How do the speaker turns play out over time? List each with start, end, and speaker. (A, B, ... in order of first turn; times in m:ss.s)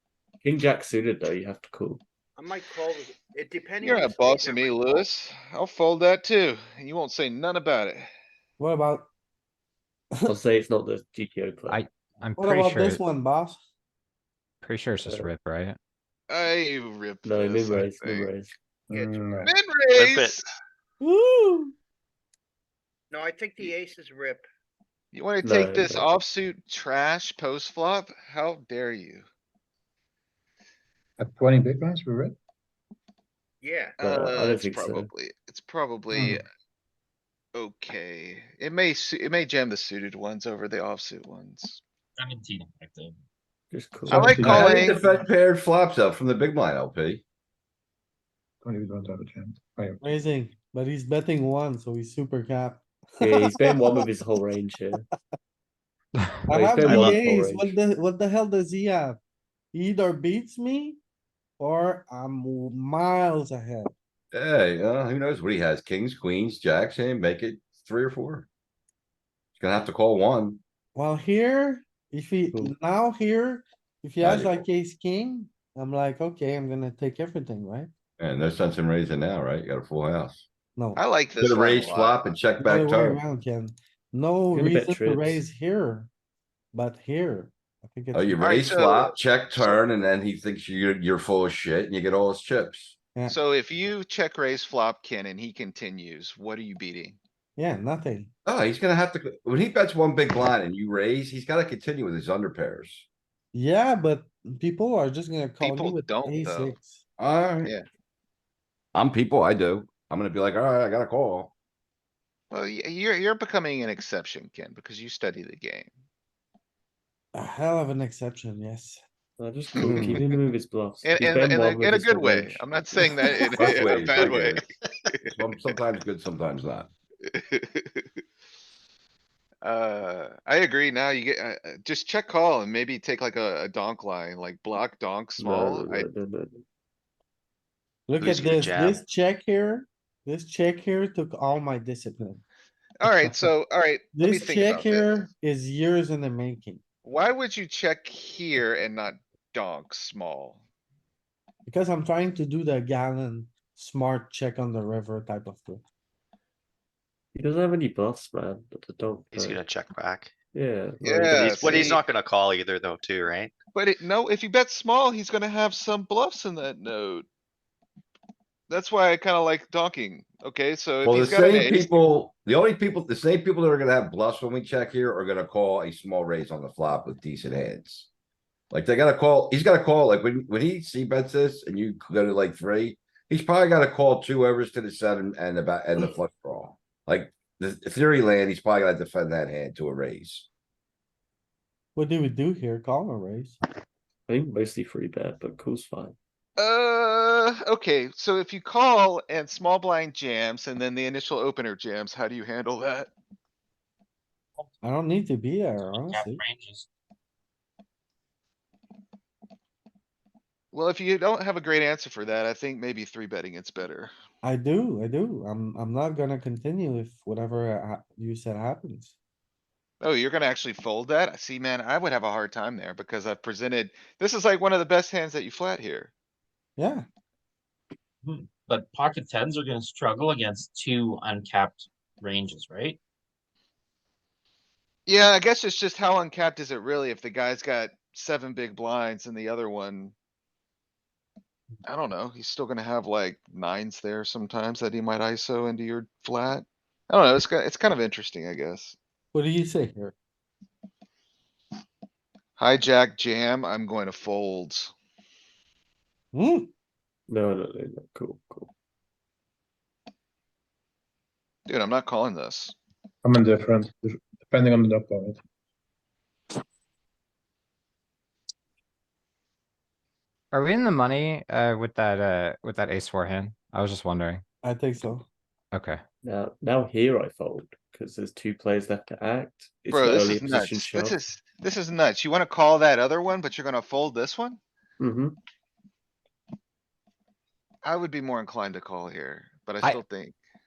0:00.4-0:02.0 A
0:02.4-0:05.0 B
0:03.8-0:08.1 C
0:08.6-0:09.1 D
0:10.3-0:11.8 A
0:11.7-0:13.0 E
0:12.4-0:13.6 D
0:14.6-0:15.8 E
0:16.3-0:18.3 C
0:17.2-0:18.6 A
0:18.9-0:19.5 F
0:18.9-0:19.2 B
0:19.4-0:20.4 C
0:20.0-0:20.4 G
0:21.0-0:21.7 D
0:23.1-0:24.4 B
0:25.1-0:29.2 C
0:25.4-0:26.1 A
0:31.2-0:32.4 F
0:33.6-0:33.9 B
0:34.0-0:36.4 C
0:34.0-0:35.1 A
0:37.6-0:41.8 C
0:42.2-0:43.2 H
0:43.7-0:44.4 A
0:44.1-0:45.0 F
0:44.1-0:45.0 C
0:44.4-0:47.2 I
0:48.6-0:50.3 F
0:50.0-0:53.6 D
0:53.2-0:55.1 A
0:56.5-0:59.2 D
0:56.5-0:57.8 A
0:59.7-1:01.0 D
1:01.6-1:03.9 D
1:04.3-1:08.5 I
1:09.6-1:10.6 I
1:11.0-1:17.9 D
1:14.2-1:14.7 I
1:18.2-1:20.4 I
1:20.8-1:21.0 D
1:21.0-1:22.3 C
1:21.4-1:23.2 I
1:22.6-1:26.1 D
1:24.5-1:25.4 A
1:26.7-1:28.5 D
1:28.1-1:33.0 I
1:28.4-1:29.7 C
1:33.3-1:37.2 C
1:37.6-1:38.3 D
1:38.5-1:43.1 I
1:43.5-1:47.0 D
1:45.6-1:46.8 C
1:47.2-1:47.7 I
1:48.9-1:51.5 I
1:52.5-1:55.9 C
1:57.3-1:59.0 D
1:59.4-2:02.6 A
1:59.8-2:00.4 D
1:59.8-2:00.1 C
2:01.0-2:05.8 C
2:03.5-2:04.6 I
2:05.3-2:06.9 I
2:07.3-2:08.0 C
2:09.6-2:16.1 C
2:15.4-2:16.6 A
2:18.1-2:22.4 D
2:18.2-2:19.0 G
2:23.0-2:25.3 C
2:24.2-2:26.8 D
2:27.0-2:30.6 C
2:31.7-2:35.8 D
2:37.3-2:39.6 A
2:39.3-2:40.3 G
2:40.5-2:42.0 A
2:41.0-2:42.0 C
2:41.3-2:43.5 G
2:43.8-2:47.3 C
2:48.7-2:52.1 C
2:51.0-2:58.1 I
2:58.7-3:10.5 I
3:12.0-3:13.6 D
3:14.3-3:16.2 A
3:16.6-3:23.1 C
3:24.8-3:26.4 D
3:25.8-3:26.9 H
3:30.7-3:34.1 C
3:34.4-3:39.2 D
3:40.0-3:46.1 C
3:46.8-3:47.0 D
3:48.2-3:53.0 H
3:55.1-4:00.1 C
4:01.9-4:09.0 C
4:09.3-4:10.1 D
4:12.6-4:14.9 C
4:16.3-4:16.7 D
4:17.3-4:18.7 A
4:21.7-4:22.8 C
4:23.2-4:25.4 F
4:30.5-4:34.4 E
4:34.6-4:35.3 D
4:35.7-4:36.0 E
4:36.2-4:41.2 A
4:39.9-4:44.6 C
4:45.0-4:45.4 A
4:47.8-4:50.4 C